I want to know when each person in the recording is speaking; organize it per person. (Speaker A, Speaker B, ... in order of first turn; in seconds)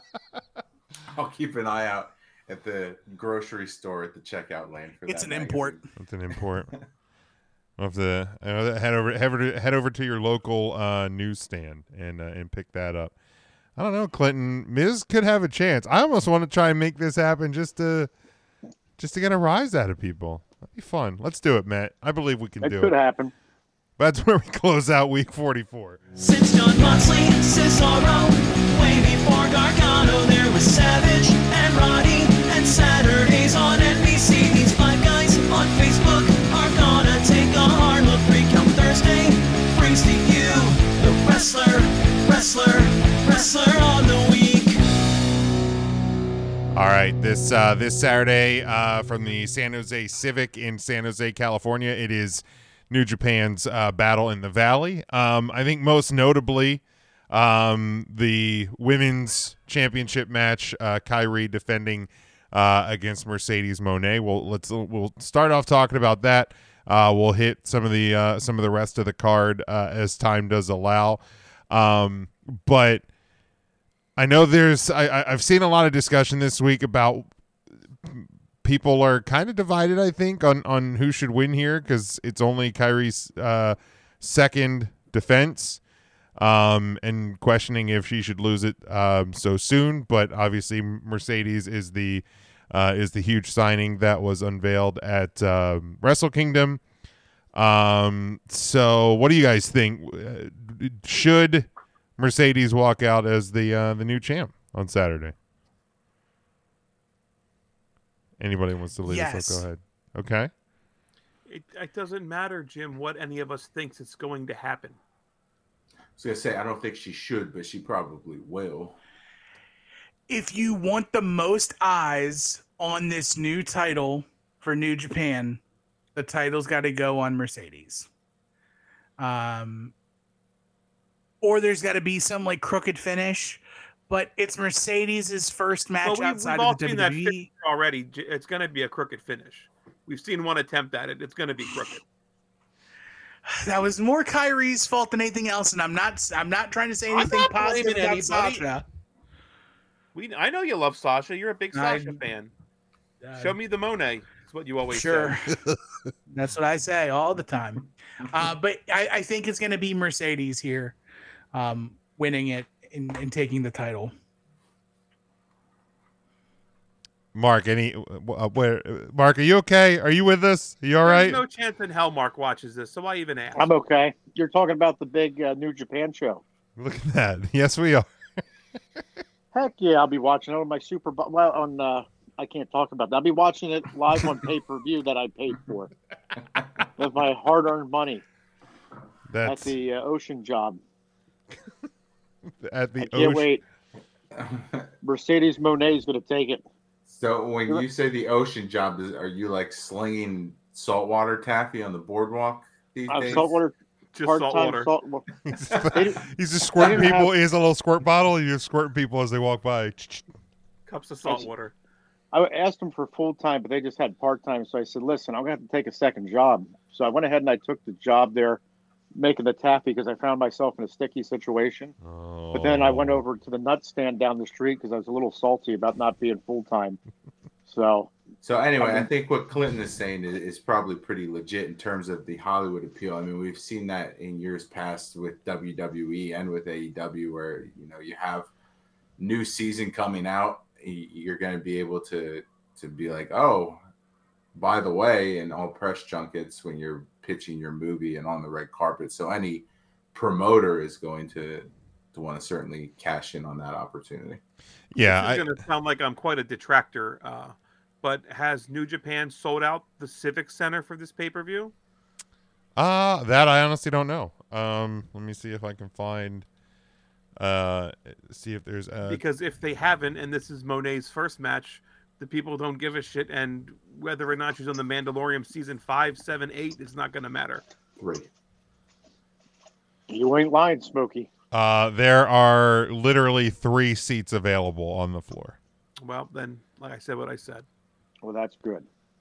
Speaker A: 1.1-5.8, 116.2-119.0, 194.3-194.9, 197.1-203.6, 228.4-238.5, 239.2-243.8, 244.5-254.4, 278.0-278.3
Speaker B: 5.1-5.8, 109.0-109.7, 120.3-125.6, 126.1-128.1, 129.2-129.9, 131.4-137.5, 143.5-148.8, 151.7-152.2, 153.2-153.6, 154.9-155.5, 156.3-160.9, 161.5-164.1
Speaker C: 6.0-6.7, 7.8-13.1, 13.8-18.1, 19.0-22.9, 24.0-26.0, 46.7-73.0, 74.2-77.3, 78.0-85.8, 86.4-96.8, 97.5-105.3, 108.4-110.5, 167.3-171.4, 176.8-178.1, 189.3-189.8, 192.6-193.5, 205.4-210.2, 222.0-223.2, 254.9-255.6, 262.8-266.4, 267.4-269.2, 281.5-285.6
Speaker D: 22.6-23.3, 173.6-176.4, 179.5-185.9, 187.0-188.2, 189.4-190.8, 193.0-193.6, 195.0-196.6, 203.1-205.2, 205.9-206.2, 206.8-207.3, 212.3-218.6, 219.1-221.9, 222.5-227.0, 227.7-228.1, 228.8-229.1, 280.1-281.3, 288.2-288.9
Speaker E: 26.2-44.8
Speaker F: 111.5-115.0, 136.0-142.0, 147.1-148.6, 150.1-152.5, 153.4-155.3, 171.0-173.7, 204.1-204.9, 210.9-211.7, 255.0-261.7, 269.1-277.6, 286.0-287.6